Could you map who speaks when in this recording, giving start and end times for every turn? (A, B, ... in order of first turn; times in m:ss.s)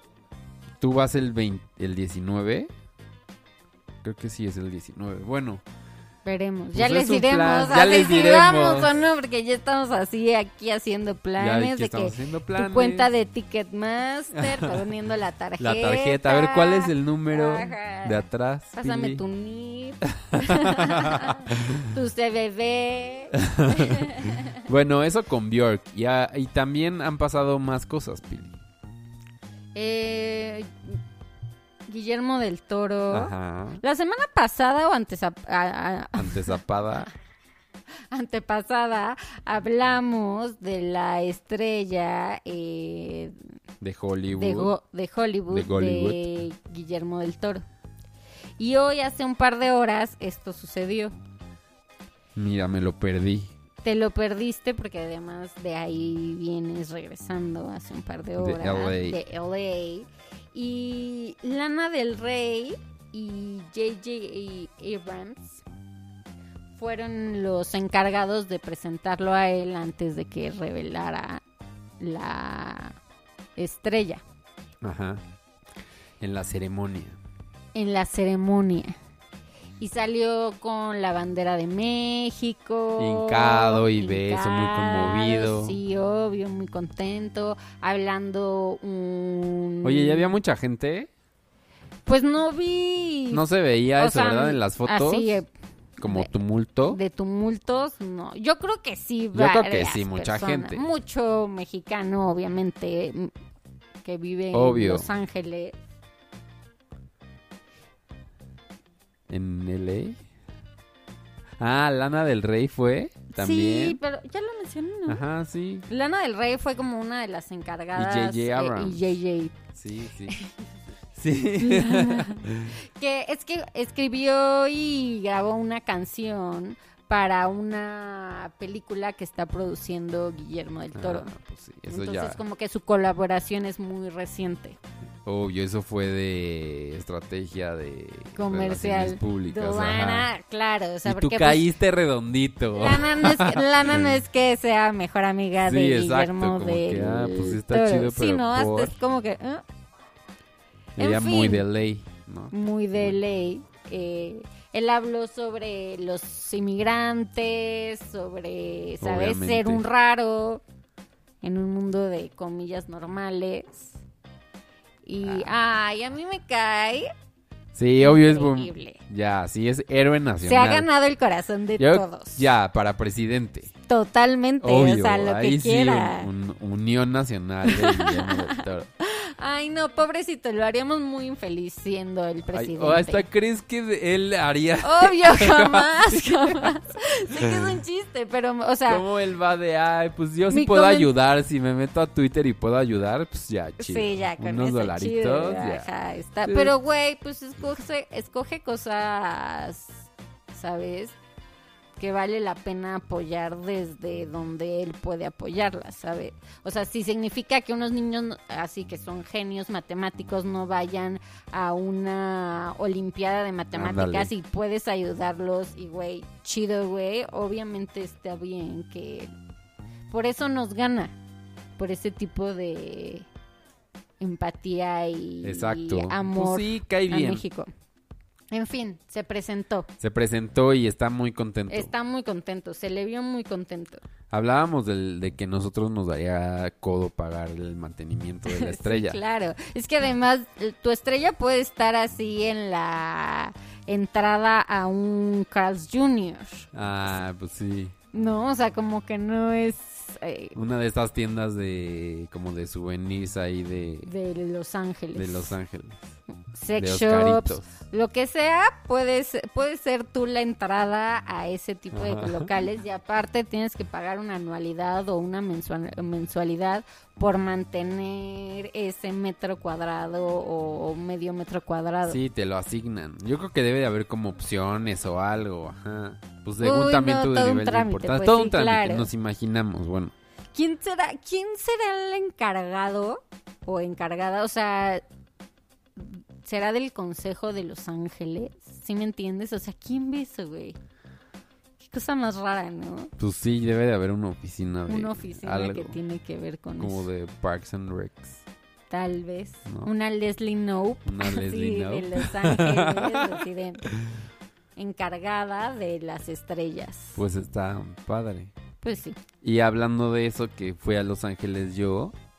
0:00.8-0:02.7 A
0:04.0-0:05.6 A
0:06.2-0:24.5 B
0:06.7-0:09.0 A
0:11.4-0:13.1 A
0:14.4-0:14.9 A
0:15.6-0:19.2 A
0:20.3-0:21.8 A
0:23.4-0:28.6 A
0:29.8-0:31.0 B
0:31.9-0:36.6 B
0:33.1-0:33.8 A
0:36.2-0:37.1 A
0:38.1-0:43.4 B
0:43.8-0:44.7 A
0:44.3-0:47.6 B
0:45.5-0:46.4 A
0:48.6-0:51.2 B
0:52.4-0:53.5 A
0:53.8-1:05.6 B
0:58.4-0:59.2 A
1:06.8-1:11.4 B
1:12.0-1:13.0 B
1:13.6-1:14.2 B
1:14.8-1:15.2 A
1:16.2-1:17.2 A
1:17.8-1:19.0 B
1:19.8-1:30.3 B
1:23.0-1:25.8 A
1:29.8-1:31.1 A
1:32.1-1:33.4 B
1:33.3-1:35.4 A
1:34.0-1:35.5 B
1:36.0-1:37.0 A
1:36.0-1:36.3 B
1:36.9-1:43.3 B
1:39.3-1:40.8 A
1:44.0-1:45.8 B
1:44.5-1:45.1 A
1:49.3-1:50.2 A
1:51.6-1:54.0 A
1:53.3-1:55.2 B
1:55.1-1:55.9 A
1:55.9-1:59.6 B
1:58.0-1:59.2 A
1:59.7-2:00.4 A
2:01.1-2:02.8 A
2:01.6-2:11.3 B
2:11.0-2:12.4 A
2:11.9-2:14.8 B
2:15.2-2:20.3 A
2:18.4-2:21.7 B
2:21.0-2:24.2 A
2:22.8-2:29.6 B
2:25.6-2:29.0 A
2:31.0-2:31.7 B
2:31.0-2:33.2 A
2:32.5-2:40.6 B
2:39.0-2:39.8 A
2:41.4-2:44.0 B
2:45.0-2:47.1 B
2:45.2-2:45.5 A
2:47.7-2:50.9 A
2:48.0-2:49.0 B
2:50.4-2:52.5 B
2:51.8-2:53.7 A
2:53.9-2:56.3 B
2:54.6-2:58.9 A
2:57.6-3:03.2 B
3:02.5-3:06.7 A
3:04.8-3:09.0 B
3:07.4-3:07.7 A
3:08.9-3:15.9 A
3:10.5-3:11.1 B
3:13.8-3:21.2 B
3:16.4-3:16.7 A
3:22.0-3:39.3 B
3:33.7-3:34.3 A
3:40.1-3:41.2 B
3:41.8-3:43.3 B
3:44.2-3:47.7 B
3:45.4-3:47.4 A
3:48.5-3:49.9 B
3:50.0-3:51.9 A
3:51.7-3:54.0 B
3:54.3-3:59.2 A
3:58.5-4:06.7 B
4:06.7-4:08.0 A
4:08.1-4:10.6 B
4:10.6-4:14.1 A
4:14.0-4:15.6 B
4:15.2-4:16.0 A
4:16.5-4:32.2 B
4:16.8-4:17.7 A
4:21.9-4:22.5 A
4:32.0-4:40.1 A
4:36.6-4:39.1 B
4:40.5-4:45.0 B
4:46.0-4:50.8 B
4:51.8-4:53.1 B
4:53.2-4:56.0 A
4:54.9-4:57.1 B
4:56.8-4:58.4 A
4:58.9-5:03.9 B
5:01.0-5:03.4 A
5:04.8-5:07.2 B
5:07.2-5:08.5 A
5:08.8-5:09.2 B
5:09.4-5:12.2 A